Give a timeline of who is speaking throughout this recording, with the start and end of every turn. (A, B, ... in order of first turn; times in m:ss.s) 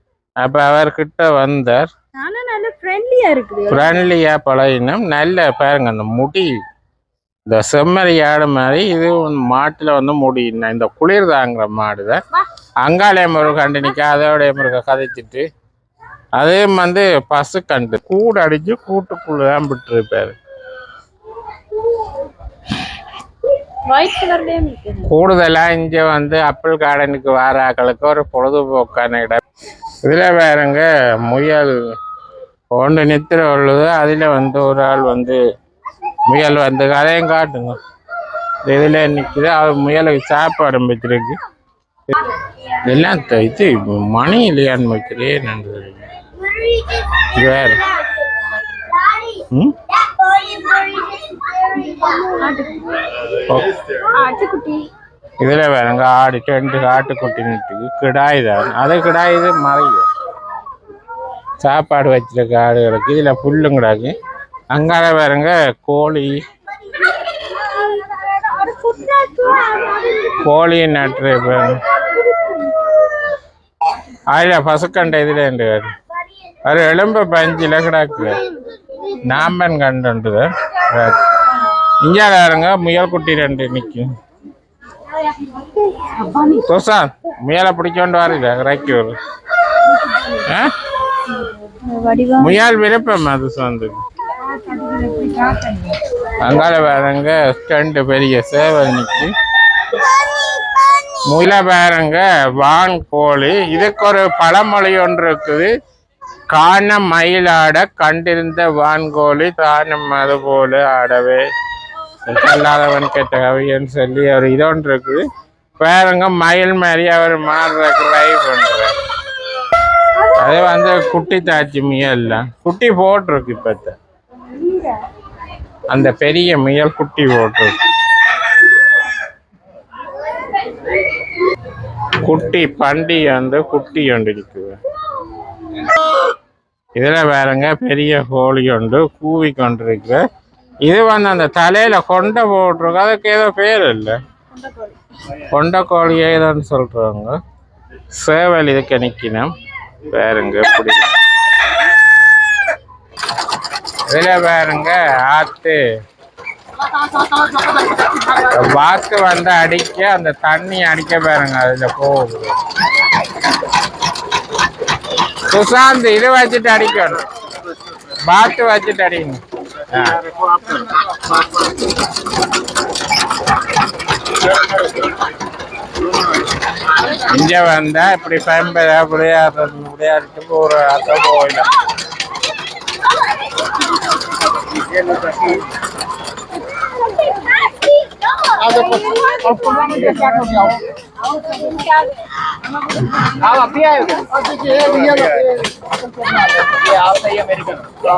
0:00.4-0:01.9 A
0:02.2-0:04.0 B
0:03.7-0:06.5 A
0:07.5-0:12.2 A
0:12.8-0:15.4 A
0:16.4-0:20.4 A
0:23.8-0:25.1 B
0:25.1-0:29.4 A
0:30.0-0:31.8 A
0:32.7-0:35.4 A
0:36.3-0:37.8 A
0:38.6-0:41.4 A
0:42.9-0:46.0 A
0:47.3-0:47.8 A
0:50.3-0:51.2 B
0:51.8-0:53.0 B
0:53.4-0:53.8 A
0:54.1-0:54.9 B
0:55.4-1:00.1 A
1:01.6-1:04.1 A
1:04.7-1:06.4 A
1:07.9-1:09.6 B
1:10.3-1:11.8 A
1:14.3-1:15.9 A
1:16.6-1:18.4 A
1:19.2-1:21.2 A
1:22.0-1:24.1 A
1:26.0-1:26.4 B
1:26.6-1:29.2 A
1:30.4-1:30.7 A
1:31.8-1:32.6 B
1:32.4-1:34.0 A
1:34.5-1:36.0 C
1:36.4-1:39.3 A
1:41.3-1:45.7 A
1:46.5-1:51.4 A
1:52.2-1:55.2 A
1:55.8-1:58.9 A
2:00.3-2:03.9 A
2:04.6-2:05.0 B
2:05.9-2:07.8 A
2:12.2-2:14.8 A
2:17.0-2:20.2 A
2:20.8-2:24.2 A
2:24.6-2:24.9 B
2:25.4-2:27.4 A
2:28.1-2:29.5 A
2:30.1-2:31.1 A
2:34.1-2:35.8 A
2:38.2-2:42.5 A
2:45.5-2:47.2 A
2:48.3-2:50.2 A
2:57.1-3:01.7 A
3:07.3-3:07.9 B
3:08.4-3:10.3 B
3:09.6-3:10.8 C
3:11.6-3:12.0 B
3:13.4-3:15.7 C
3:16.3-3:17.8 C